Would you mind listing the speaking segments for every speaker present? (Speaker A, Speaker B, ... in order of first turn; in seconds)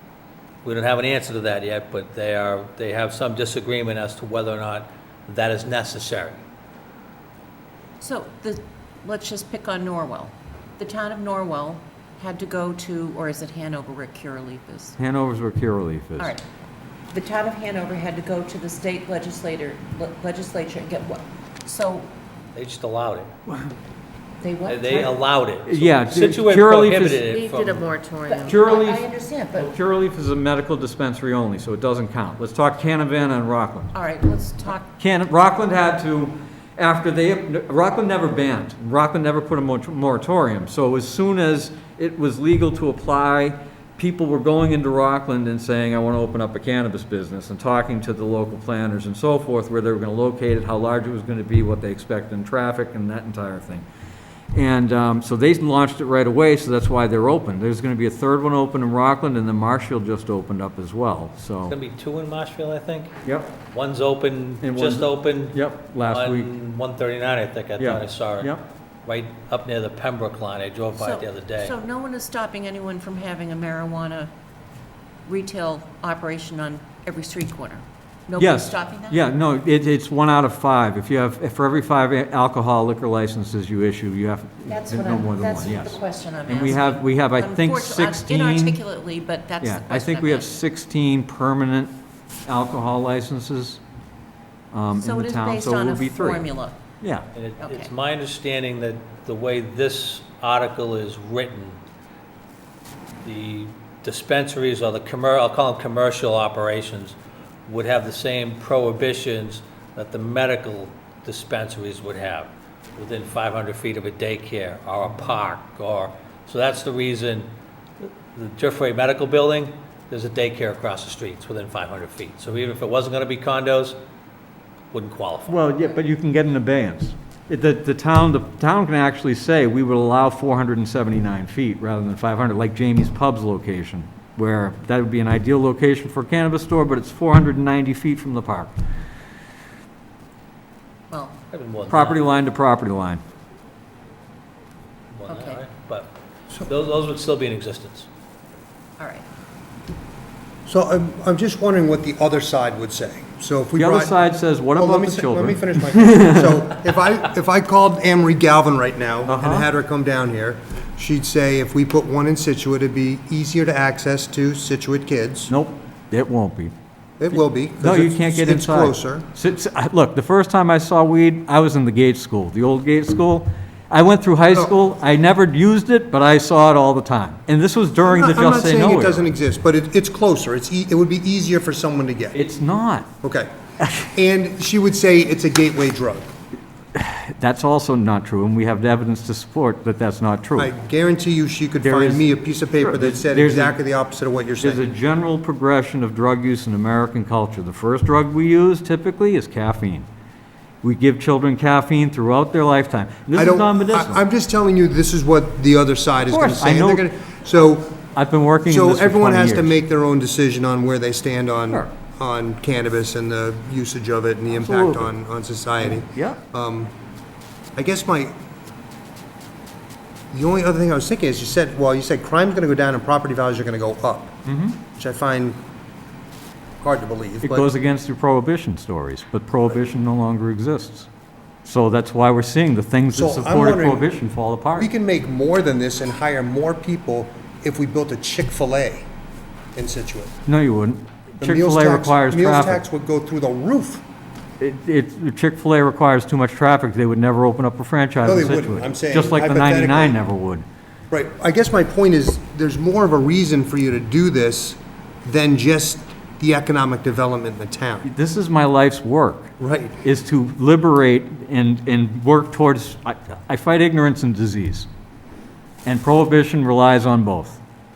Speaker A: 0.6-6.4, 22.6-23.3, 24.7-27.9, 61.7-68.5, 69.0-71.8, 97.3-101.8, 103.2-107.2, 107.7-117.5, 118.0-124.0, 124.9-125.6, 141.5-142.3, 145.1-146.1, 146.7-148.1
Speaker B: 8.0-15.0, 17.1-22.1, 24.4-25.2, 27.2-29.8, 33.9-34.9, 71.0-74.3, 75.3-79.2, 84.7-90.6, 95.0-96.8, 97.6-97.9, 141.1-141.4, 145.2-145.6, 149.0-149.2
Speaker C: 15.0-16.3, 25.7-27.2, 28.3-33.9, 35.0-53.9, 54.5-61.8, 63.2-63.5, 64.6-66.5, 67.8-68.7, 78.4-88.8, 89.6-91.9, 92.5-93.8, 94.7-96.5, 97.0-97.3, 125.5-138.8, 141.9-143.2, 153.8-156.6, 159.3-159.7, 165.5-166.7, 167.3-179.3, 182.3-183.1, 183.8-184.1, 186.9-190.7, 191.8-193.8, 194.6-200.1, 200.8-204.2, 206.2-207.1, 208.1-209.8, 214.6-215.1, 215.8-216.4, 224.5-224.8, 227.4-231.1, 231.7-234.9, 240.5-242.8, 244.6-250.7, 258.0-264.9, 265.9-267.6
Speaker D: 150.7-154.2, 154.8-165.5, 167.2-169.3, 178.1-182.4, 183.2-186.3, 190.6-194.8, 203.3-207.9, 208.7-216.9, 217.8-218.3, 220.3-224.4, 224.9-225.6, 226.8-227.7, 233.1-234.1, 234.8-239.1, 239.8-240.3, 241.4-244.0, 248.2-250.2, 251.1-258.1, 259.6-260.0